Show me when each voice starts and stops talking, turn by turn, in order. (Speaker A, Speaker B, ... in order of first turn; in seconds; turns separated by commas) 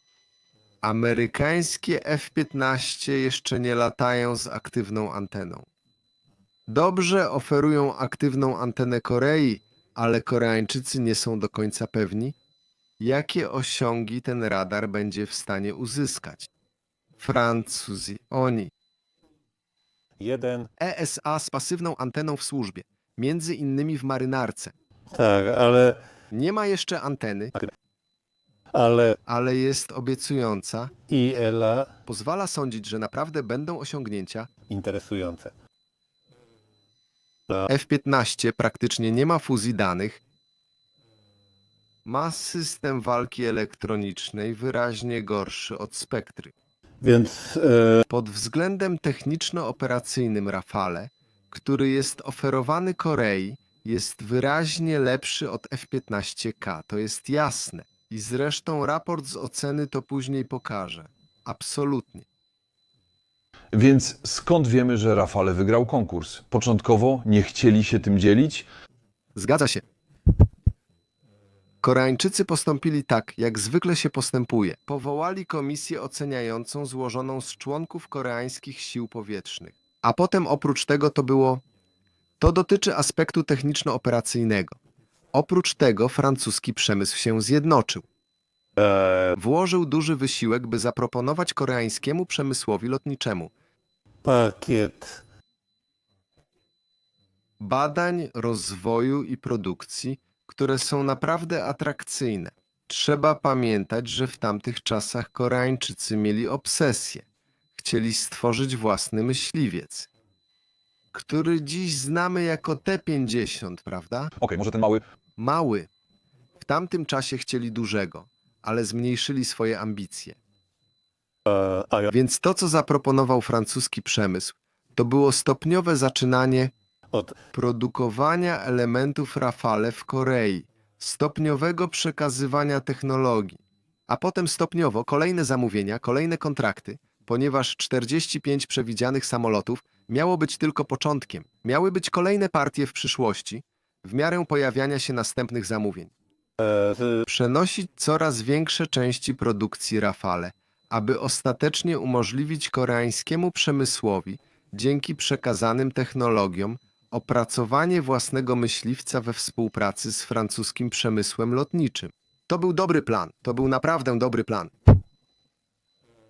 Speaker A: 0.8-5.7, Speaker A: 6.7-12.3, Speaker A: 13.0-16.5, Speaker A: 17.2-18.7, Speaker B: 20.2-20.7, Speaker A: 20.8-24.7, Speaker B: 25.1-25.9, Speaker A: 26.3-27.5, Speaker B: 28.7-29.2, Speaker A: 29.3-30.9, Speaker B: 31.0-31.9, Speaker A: 32.0-34.5, Speaker B: 34.7-35.5, Speaker A: 37.7-40.2, Speaker A: 42.0-46.5, Speaker B: 47.0-48.0, Speaker A: 48.1-62.2, Speaker C: 63.7-68.7, Speaker A: 69.3-69.8, Speaker A: 71.8-81.6, Speaker A: 82.4-84.8, Speaker A: 85.3-88.0, Speaker B: 88.8-89.4, Speaker A: 89.3-93.5, Speaker B: 94.2-95.2, Speaker A: 97.6-107.2, Speaker A: 107.8-110.1, Speaker A: 111.1-114.3, Speaker C: 114.4-115.0, Speaker A: 115.4-115.9, Speaker A: 116.6-120.4, Speaker B: 121.5-122.1, Speaker A: 122.1-126.7, Speaker B: 127.1-127.4, Speaker A: 127.5-146.1, Speaker B: 146.6-147.2, Speaker A: 147.2-164.7